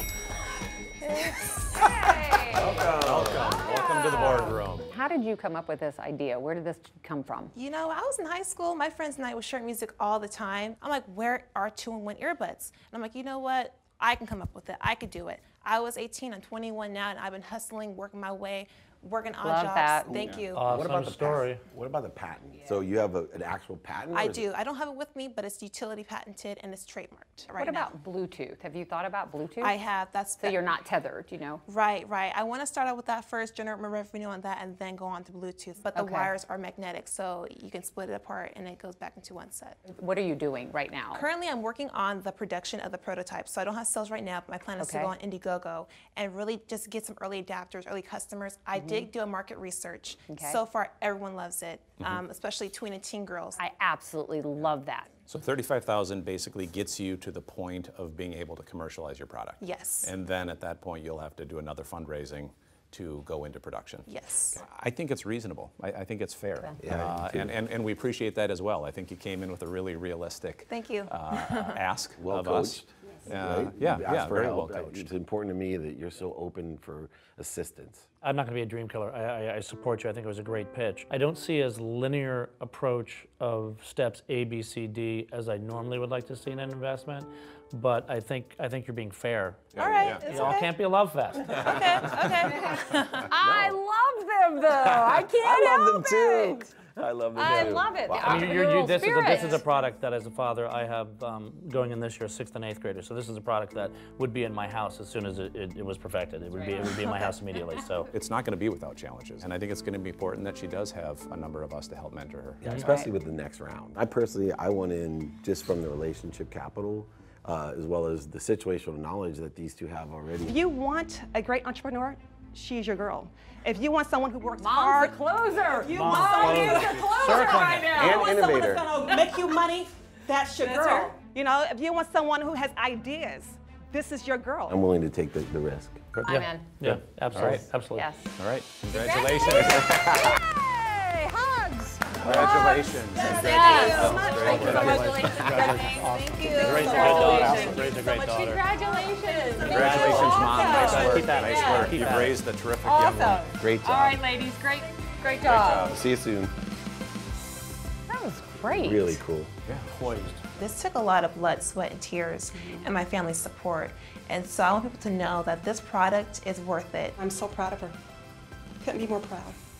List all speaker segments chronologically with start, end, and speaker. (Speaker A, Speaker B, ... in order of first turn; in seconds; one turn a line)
Speaker A: 1.0-1.9
Speaker B: 1.8-2.7
Speaker C: 2.5-3.5
Speaker D: 2.8-4.9
Speaker B: 3.5-7.5
Speaker A: 7.5-20.7
Speaker B: 19.4-20.3
Speaker D: 20.2-20.5
Speaker C: 20.2-24.5
Speaker E: 20.5-21.6
Speaker A: 24.1-27.9
Speaker B: 27.6-29.8
Speaker A: 29.6-30.7
Speaker B: 30.4-31.6
Speaker A: 31.7-39.8
Speaker B: 35.9-36.3
Speaker B: 39.9-41.3
Speaker A: 41.1-53.6
Speaker B: 44.8-45.1
Speaker B: 48.7-49.1
Speaker B: 50.3-50.6
Speaker B: 53.6-55.1
Speaker D: 55.3-75.1
Speaker A: 59.6-60.1
Speaker A: 64.1-64.6
Speaker C: 66.8-67.6
Speaker A: 70.7-71.8
Speaker C: 72.2-78.1
Speaker E: 78.2-92.1
Speaker D: 89.8-90.3
Speaker A: 89.8-90.8
Speaker A: 91.6-93.2
Speaker B: 91.6-96.7
Speaker C: 93.3-93.8
Speaker C: 94.8-98.6
Speaker B: 97.3-99.7
Speaker E: 98.2-108.1
Speaker D: 108.1-112.8
Speaker C: 112.6-120.6
Speaker B: 112.8-113.1
Speaker F: 120.4-134.8
Speaker B: 124.6-128.2
Speaker E: 125.8-128.0
Speaker C: 127.9-129.0
Speaker B: 129.1-129.6
Speaker B: 130.6-131.2
Speaker C: 134.7-136.0
Speaker D: 136.1-137.7
Speaker B: 136.3-136.7
Speaker E: 136.3-138.1
Speaker B: 137.9-138.3
Speaker D: 138.4-140.4
Speaker B: 138.9-151.1
Speaker D: 142.2-145.8
Speaker A: 142.2-148.0
Speaker F: 143.2-144.3
Speaker E: 143.8-148.7
Speaker F: 146.9-147.8
Speaker F: 149.1-150.3
Speaker E: 149.6-152.4
Speaker D: 149.6-153.9
Speaker A: 149.9-151.2
Speaker B: 152.9-155.9
Speaker C: 153.6-154.3
Speaker D: 155.4-156.0
Speaker C: 155.8-156.5
Speaker B: 158.1-159.2
Speaker C: 158.6-159.5
Speaker D: 159.7-159.9
Speaker E: 159.9-160.4
Speaker A: 160.6-167.2
Speaker F: 167.2-168.0
Speaker F: 168.8-169.6